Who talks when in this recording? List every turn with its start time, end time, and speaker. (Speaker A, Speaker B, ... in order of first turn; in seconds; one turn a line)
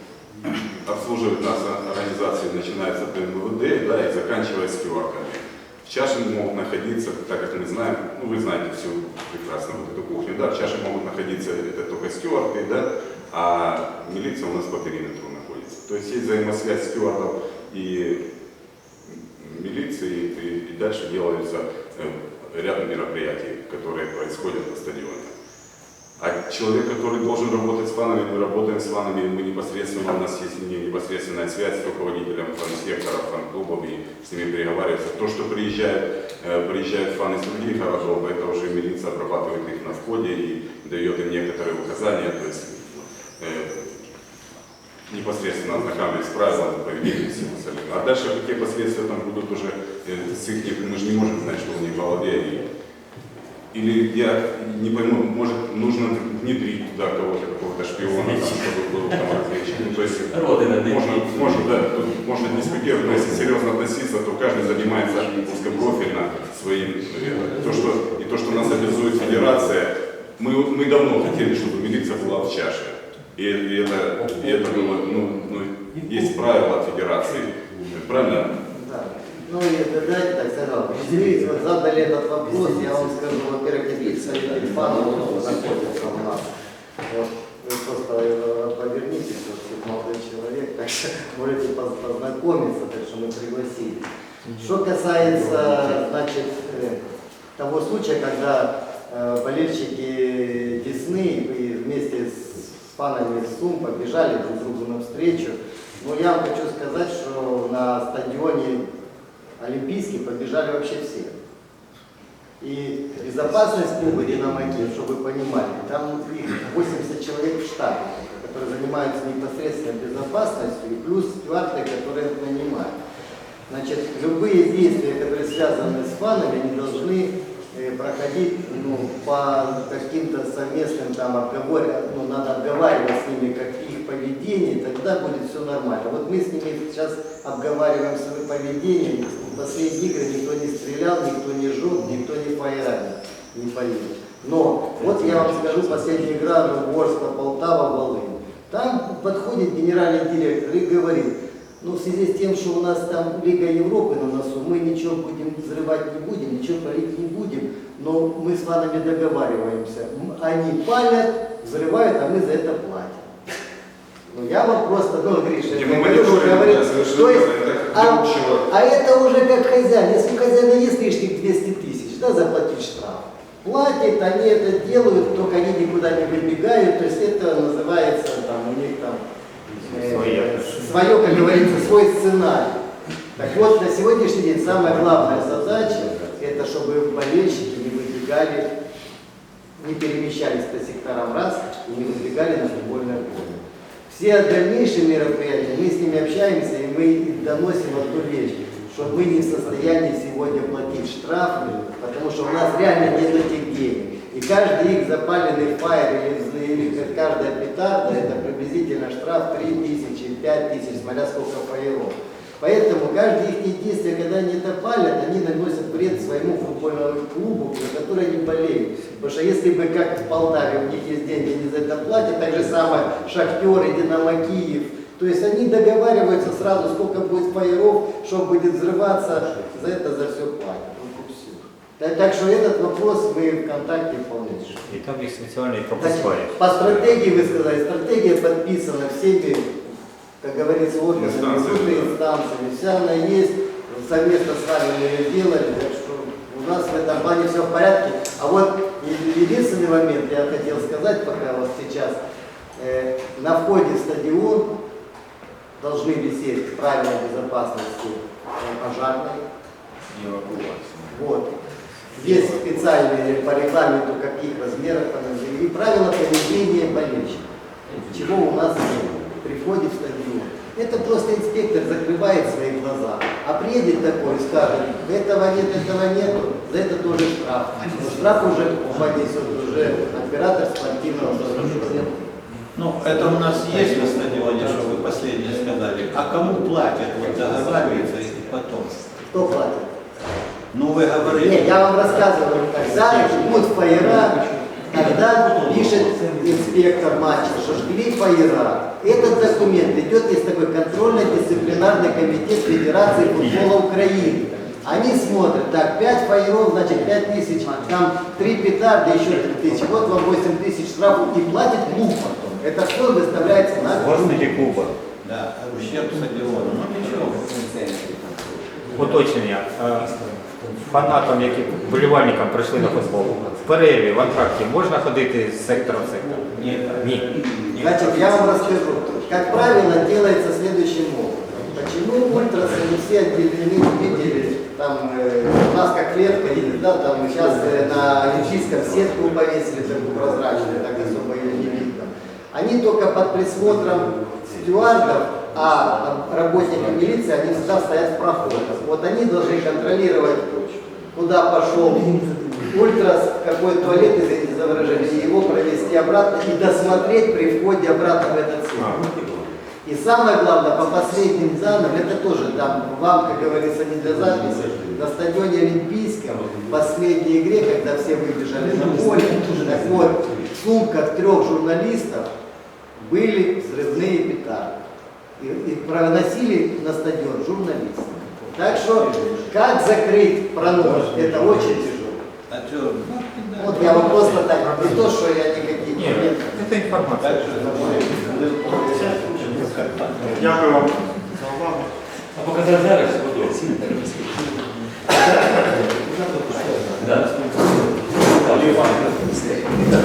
Speaker A: 0.5-18.2
Speaker A: 19.1-25.3
Speaker A: 26.2-44.0
Speaker A: 45.1-52.7
Speaker A: 53.7-78.6
Speaker B: 58.0-59.3
Speaker B: 60.2-61.8
Speaker C: 78.7-86.5
Speaker C: 87.1-97.0
Speaker C: 97.6-108.8
Speaker C: 109.6-111.4
Speaker C: 112.6-123.0
Speaker C: 123.7-163.3
Speaker C: 164.3-179.2
Speaker A: 165.7-168.7
Speaker C: 179.8-182.8
Speaker D: 179.9-181.1
Speaker C: 183.3-188.7
Speaker C: 189.8-234.8
Speaker D: 234.9-237.1
Speaker C: 236.0-239.8
Speaker C: 240.4-252.2
Speaker A: 241.1-242.1
Speaker C: 252.8-254.7
Speaker C: 255.8-259.4
Speaker A: 260.1-260.8
Speaker C: 261.1-261.6
Speaker C: 262.1-282.3
Speaker E: 282.7-289.1
Speaker C: 289.3-289.9
Speaker E: 290.7-291.8
Speaker C: 291.3-314.8
Speaker E: 293.0-293.7
Speaker E: 294.9-296.1
Speaker D: 313.9-314.9
Speaker E: 315.2-318.5
Speaker D: 318.9-327.4
Speaker E: 326.5-328.8
Speaker C: 327.7-359.0
Speaker C: 359.8-372.3
Speaker C: 373.0-374.7
Speaker C: 375.4-382.2
Speaker E: 378.9-379.5
Speaker E: 382.5-384.5
Speaker C: 383.6-386.8
Speaker D: 384.6-385.2
Speaker D: 385.9-388.0
Speaker E: 387.2-390.9
Speaker C: 387.6-389.2
Speaker B: 392.3-393.9
Speaker B: 396.9-399.5